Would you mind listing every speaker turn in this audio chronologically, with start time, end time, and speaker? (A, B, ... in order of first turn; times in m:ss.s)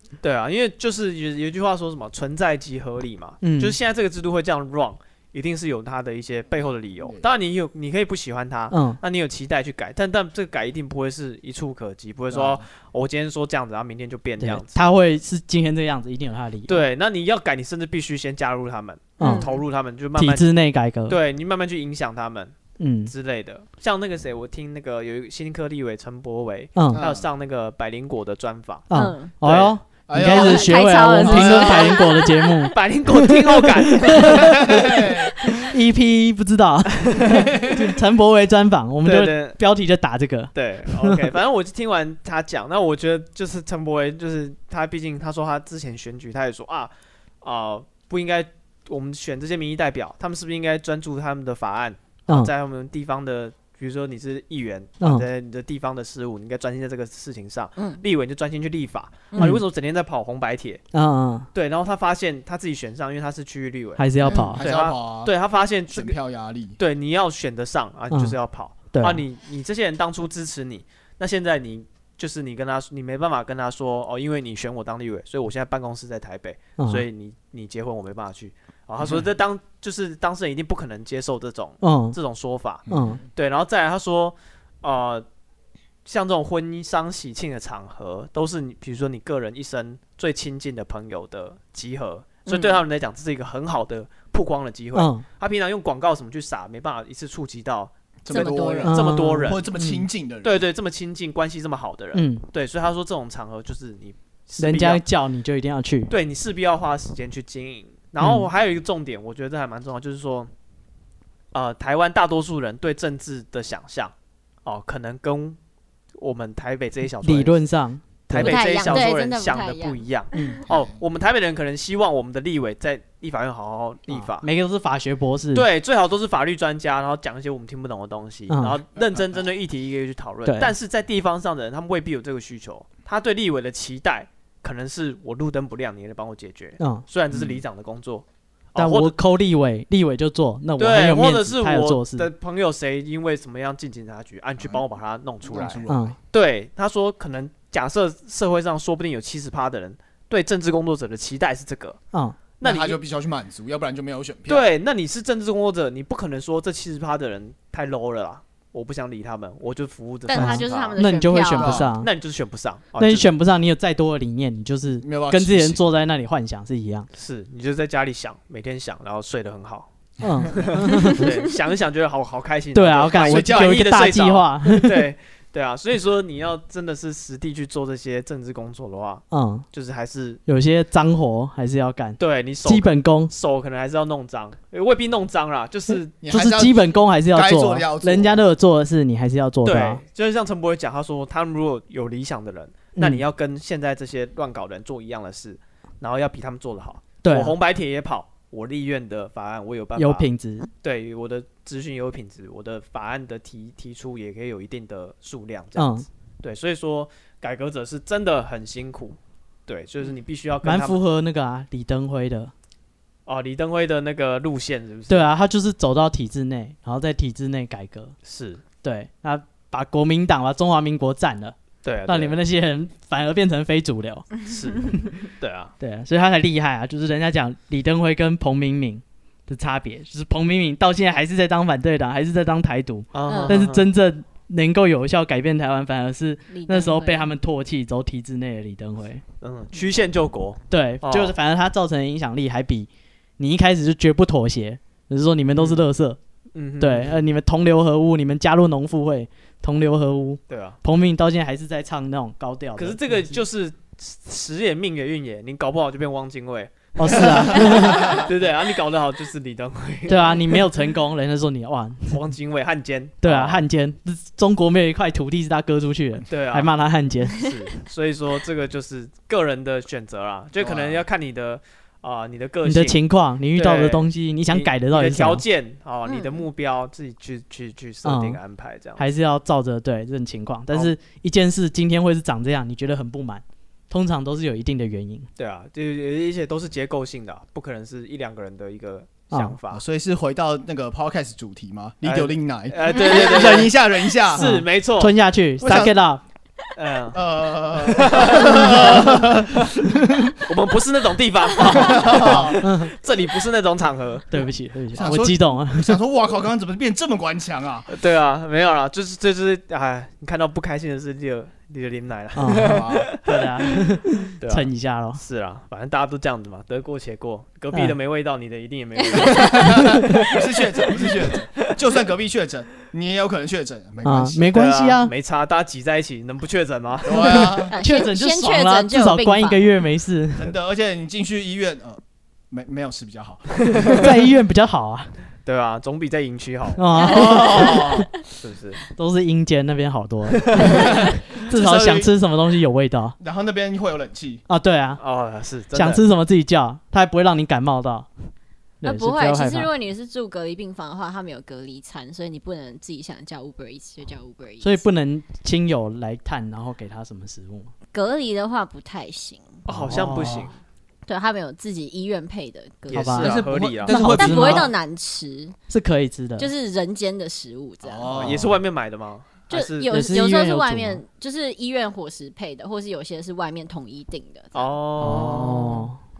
0:00.2-0:14.7 A
0:03.4-0:03.8 B
0:08.7-0:09.0 B
0:12.3-0:12.6 C
0:14.4-0:16.8 B
0:16.7-0:20.5 A
0:19.2-0:19.5 B
0:19.2-0:19.5 D
0:20.2-0:21.2 B
0:21.1-0:28.9 A
0:22.8-0:23.1 B
0:26.8-0:27.0 B
0:26.9-0:27.2 C
0:28.9-0:41.2 B
0:28.9-0:29.3 D
0:29.4-0:29.8 A
0:30.1-0:32.1 C
0:30.2-0:32.7 D
0:32.7-0:35.6 A
0:34.3-0:35.3 C
0:37.0-0:37.5 A
0:37.3-0:37.9 C
0:39.0-0:39.6 A
0:40.5-1:00.8 A
0:55.0-0:55.2 B
0:59.3-0:59.6 D
0:59.4-0:59.6 B
1:00.9-1:01.5 B
1:01.5-1:06.2 A
1:04.0-1:04.6 B
1:04.2-1:04.5 D
1:04.3-1:05.3 C
1:05.9-1:06.8 C
1:06.8-1:25.2 A
1:08.1-1:08.4 B
1:08.9-1:09.2 B
1:16.8-1:17.0 B
1:21.8-1:22.2 B
1:22.8-1:23.2 B
1:22.9-1:23.2 C
1:26.0-1:39.6 A
1:32.5-1:32.8 D
1:34.9-1:35.2 B
1:38.2-1:40.6 C
1:38.3-1:39.0 D
1:38.8-1:40.1 B
1:40.4-1:45.0 A
1:42.1-1:42.4 B
1:44.6-1:46.1 B
1:46.1-1:50.5 A
1:48.2-1:48.5 B
1:51.5-1:54.1 A
1:54.6-1:55.6 A
1:56.2-1:57.6 A
1:57.2-1:58.6 B
1:58.3-2:04.4 A
1:58.4-2:00.0 D
2:00.4-2:00.6 B
2:00.6-2:00.9 C
2:04.1-2:05.6 B
2:05.5-2:19.1 A
2:08.5-2:08.8 B
2:10.4-2:10.7 B
2:16.8-2:17.0 B
2:17.3-2:17.6 C
2:18.8-2:22.3 B
2:20.8-2:32.0 A
2:25.4-2:26.2 C
2:25.9-2:26.2 B
2:32.1-2:32.4 B
2:32.6-2:33.0 A
2:32.6-2:34.7 C
2:34.5-2:41.0 A
2:40.2-2:41.8 D
2:40.3-2:42.1 B
2:41.6-2:41.9 C
2:42.0-2:43.3 A
2:43.0-2:47.1 B
2:45.0-2:45.8 C
2:47.1-2:49.9 A
2:50.2-2:50.6 C
2:50.2-2:51.4 B
2:50.4-3:00.4 A
2:50.9-2:51.2 D
2:52.7-2:55.1 B
2:53.1-2:53.9 C
2:59.3-2:59.6 B
3:00.5-3:03.3 B
3:02.2-3:06.1 A
3:06.2-3:08.4 C
3:06.3-3:10.0 B
3:09.6-3:20.3 A
3:13.0-3:13.2 B
3:17.2-3:17.5 B
3:20.0-3:20.7 B
3:20.8-3:31.0 A
3:25.8-3:26.1 B
3:30.6-3:32.5 B
3:33.3-3:35.2 A
3:35.1-3:38.2 B
3:38.2-3:38.6 A
3:38.8-3:41.5 B
3:41.8-3:42.4 A
3:42.0-3:44.3 B
3:44.5-3:45.7 A
3:45.8-3:59.2 B
3:53.1-3:53.8 A
3:53.3-3:53.6 D
3:56.5-3:57.3 D
3:59.4-4:01.3 A
4:00.7-4:06.2 B
4:06.5-4:07.2 A
4:06.8-4:13.4 B
4:10.5-4:10.8 A
4:12.8-4:20.5 A
4:16.9-4:18.3 B
4:20.1-4:22.2 B
4:20.1-4:20.4 D
4:22.1-4:23.6 A
4:23.2-4:27.4 B
4:26.3-4:26.7 A
4:27.4-4:33.0 A
4:30.6-4:31.0 C
4:32.6-4:35.4 B
4:33.5-4:39.0 A
4:36.0-4:36.4 D
4:38.0-4:38.4 B
4:39.0-4:45.3 B
4:45.4-4:49.8 A
4:49.3-4:49.6 B
4:49.7-4:54.5 C
4:52.0-4:55.1 A
4:52.9-4:53.6 D
4:54.3-4:56.2 B
4:55.6-4:56.0 C
4:56.7-4:59.8 A
4:57.1-5:00.4 C
5:00.4-5:04.3 A
5:01.6-5:02.6 C
5:02.1-5:02.9 B
5:04.3-5:06.0 B
5:04.9-5:07.9 C
5:07.9-5:20.2 A
5:12.4-5:15.2 B
5:12.5-5:13.1 C
5:19.1-5:19.8 D
5:19.2-5:24.5 C
5:19.8-5:20.2 B
5:20.9-5:21.2 A
5:24.0-5:25.1 B
5:24.5-5:27.6 A
5:27.0-5:27.7 C
5:27.2-5:30.6 B
5:27.7-5:29.7 D
5:30.4-5:34.1 C
5:33.9-5:35.1 B
5:35.4-5:38.8 A
5:36.8-5:38.1 B
5:37.0-5:37.6 D
5:37.1-5:38.0 C
5:39.0-5:43.2 B
5:40.3-5:40.8 A
5:40.6-5:41.0 D
5:40.7-5:42.1 C
5:43.2-5:44.4 C
5:44.5-5:45.0 B
5:45.0-5:46.0 A
5:45.7-5:48.3 B
5:48.8-5:49.7 B
5:48.8-5:54.8 D
5:54.6-5:57.7 B
5:57.9-5:59.6 D
5:59.7-6:00.6 A
5:59.7-6:00.5 B
5:59.9-6:00.5 C
6:01.1-6:03.3 D
6:02.9-6:04.0 A
6:02.9-6:04.7 B
6:03.2-6:04.7 C
6:04.0-6:05.5 D
6:05.7-6:06.5 B
6:06.4-6:08.1 D
6:07.8-6:08.6 C
6:08.1-6:09.9 A
6:09.5-6:15.8 D
6:09.9-6:11.0 B
6:14.5-6:15.8 A
6:15.0-6:16.0 B